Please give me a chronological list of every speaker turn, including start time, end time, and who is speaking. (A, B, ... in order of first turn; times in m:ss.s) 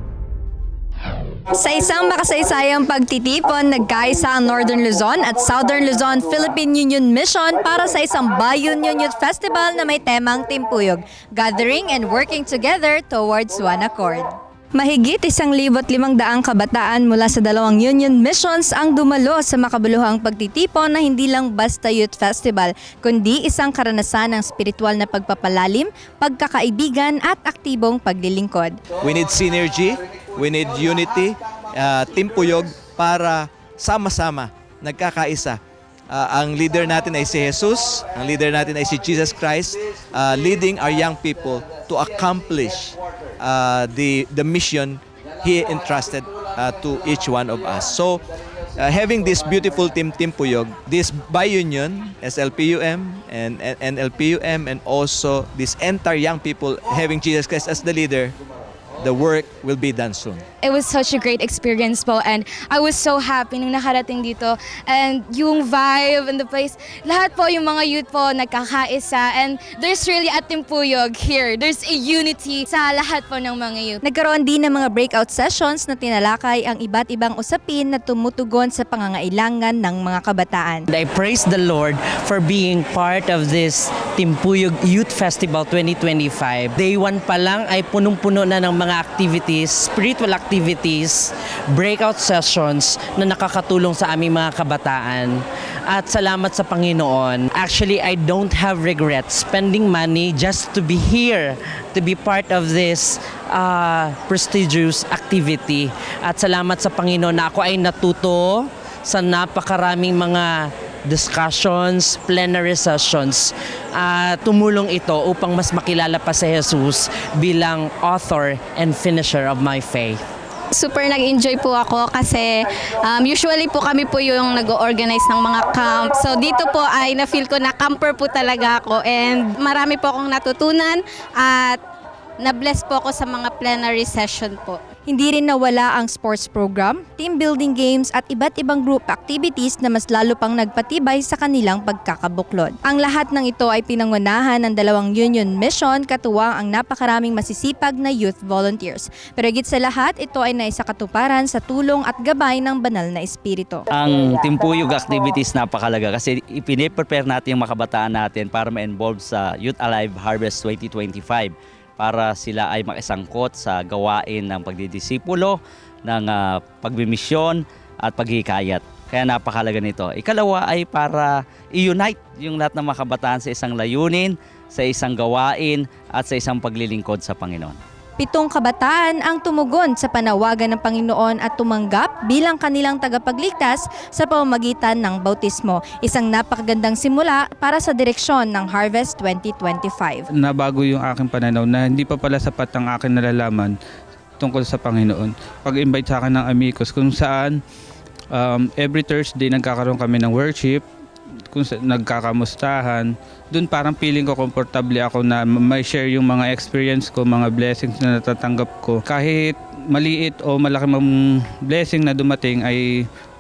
0:01.5-0:28.8 A
0:29.0-0:48.2 B
0:48.8-0:58.4 B
0:59.0-1:00.4 B
1:00.6-1:14.0 C
1:14.0-1:20.9 A
1:20.9-2:00.2 D
2:00.8-2:02.5 E
2:03.1-2:11.8 E
2:12.4-2:14.8 E
2:15.1-2:33.8 A
2:33.9-2:57.8 F
2:58.2-3:10.3 A
3:10.4-3:13.7 G
3:14.4-3:17.6 G
3:18.3-3:20.8 G
3:21.5-3:33.1 G